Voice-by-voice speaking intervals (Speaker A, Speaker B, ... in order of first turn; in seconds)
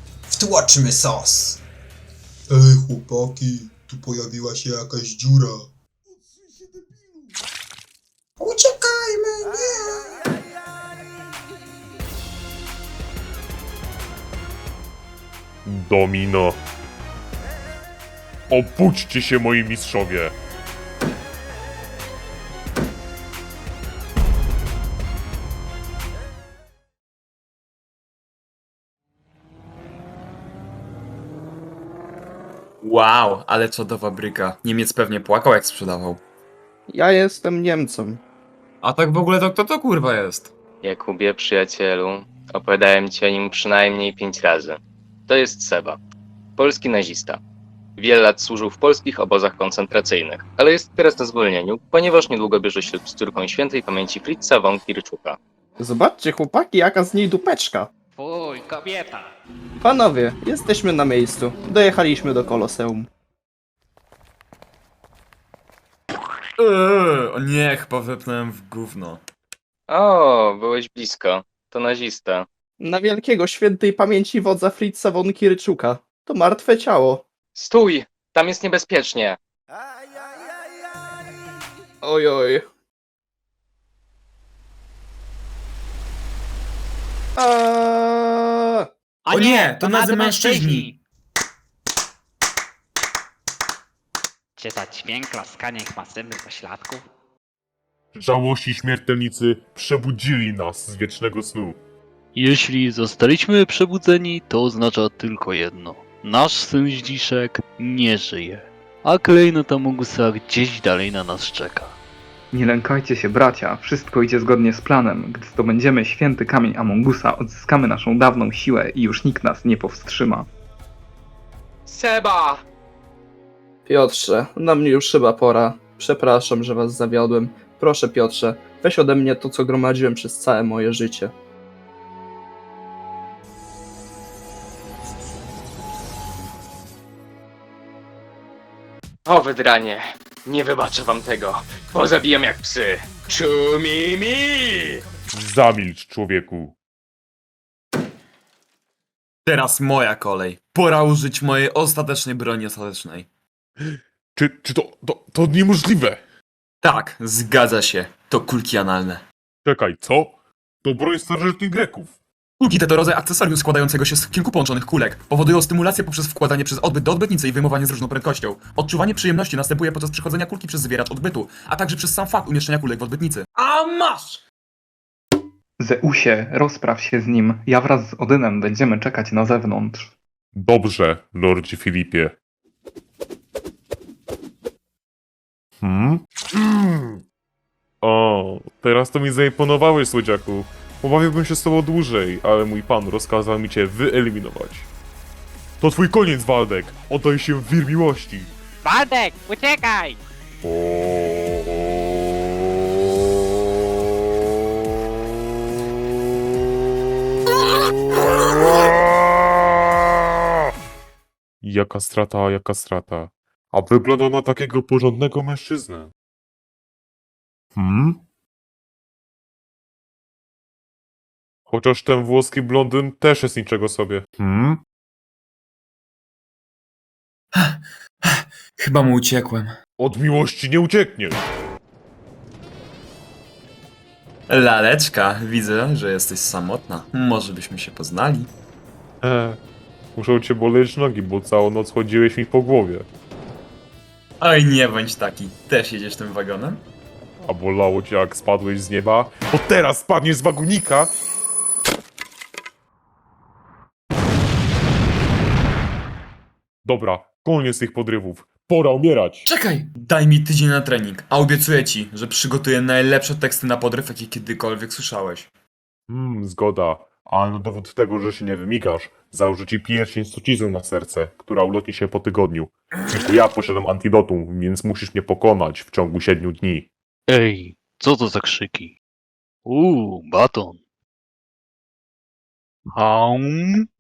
Speaker A: 0.3-1.6, 8.4-10.1
Speaker B: 2.5-5.6
Speaker C: 15.7-16.6, 18.5-20.3, 98.1-101.8, 145.3-146.8, 154.3-156.2, 159.7-162.2, 180.6-182.3, 185.8-187.2, 188.0-194.9, 195.8-198.5, 200.6-202.0, 211.6-216.1, 217.8-218.2, 221.7-224.8, 230.0-231.4, 239.2-239.6, 240.1-243.1, 247.4-251.1, 256.8-259.4, 266.1-276.9
Speaker D: 32.8-36.2, 38.8-40.5, 66.6-69.2, 89.3-90.9, 149.4-153.3, 156.8-159.2, 162.6-174.4, 227.6-229.7, 234.5-238.5, 244.4-246.8, 259.4-265.5
Speaker E: 36.9-38.2, 55.8-57.9, 59.8-63.1, 72.8-77.2, 82.0-82.6, 87.4-88.9, 123.8-131.3
Speaker F: 40.8-46.0, 46.6-47.4, 48.0-55.4, 69.9-72.5, 77.5-79.4, 121.9-122.6, 139.2-145.0
Speaker G: 58.2-59.3, 89.2-91.0, 94.6-97.1, 198.8-200.2
Speaker H: 102.3-111.9, 277.3-278.9, 279.6-280.8, 282.9-283.9
Speaker I: 112.5-120.5, 175.8-180.1